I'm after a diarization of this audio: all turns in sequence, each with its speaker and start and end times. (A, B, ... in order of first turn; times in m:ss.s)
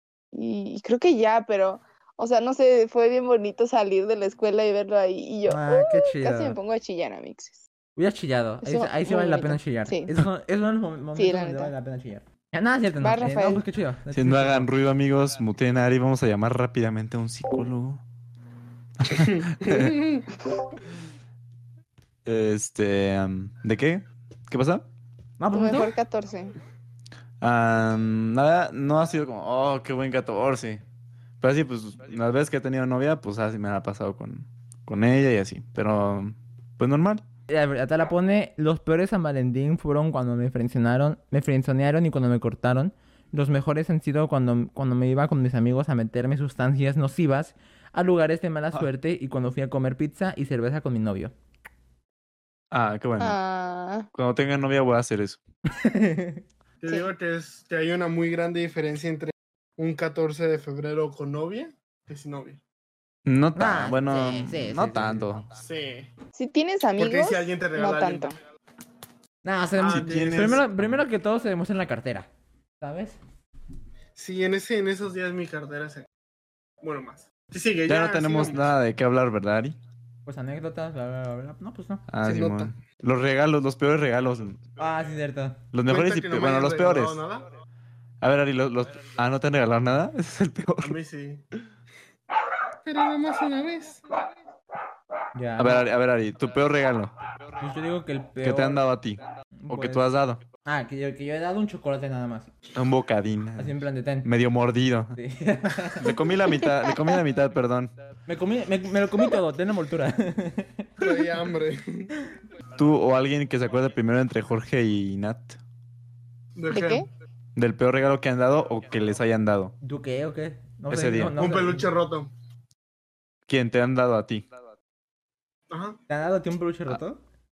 0:00.3-0:07.6 A
0:05.5-0:06.6 B
0:08.0-0:14.7 B
0:08.6-0:10.1 A
0:11.2-0:11.7 A
0:13.0-0:13.6 A
0:14.1-0:18.0 C
0:19.0-0:20.0 C
0:19.2-0:20.3 D
0:22.2-0:24.9 C
0:25.4-0:25.9 B
0:25.5-0:26.5 A
0:27.4-0:30.8 C
0:31.4-0:37.2 C
0:37.5-0:51.3 B
0:52.7-0:53.4 C
0:53.2-0:54.1 A
0:54.1-0:55.4 C
0:55.7-0:56.4 B
0:56.8-1:02.6 D
1:03.2-1:05.4 C
1:03.5-1:05.4 B
1:05.6-1:06.1 D
1:06.3-1:08.4 A
1:07.0-1:08.3 D
1:09.4-1:12.3 B
1:09.8-1:10.6 D
1:10.0-1:10.6 C
1:12.8-1:13.2 B
1:14.2-1:16.1 D
1:16.8-1:18.6 D
1:17.9-1:19.8 C
1:20.2-1:22.0 B
1:22.1-1:24.6 C
1:22.2-1:22.7 D
1:24.8-1:25.6 B
1:25.7-1:27.2 C
1:25.9-1:27.5 D
1:28.2-1:31.0 C
1:30.8-1:31.4 D
1:32.8-1:34.0 D
1:35.3-1:35.8 B
1:35.6-1:37.1 C
1:37.6-1:38.8 B
1:38.4-1:40.4 C
1:39.6-1:40.0 B
1:40.6-1:42.5 B
1:42.7-1:45.2 C
1:43.6-1:44.3 B
1:45.2-1:46.1 B
1:45.9-1:47.9 C
1:48.3-1:51.1 B
1:51.0-1:52.1 D
1:52.7-1:55.6 C
1:56.6-1:57.0 D
1:56.7-1:57.1 A
1:57.6-1:59.7 C
1:59.8-2:01.9 B
2:00.9-2:01.4 C
2:01.3-2:02.3 D
2:03.5-2:04.4 C
2:05.7-2:06.0 D
2:06.1-2:07.2 B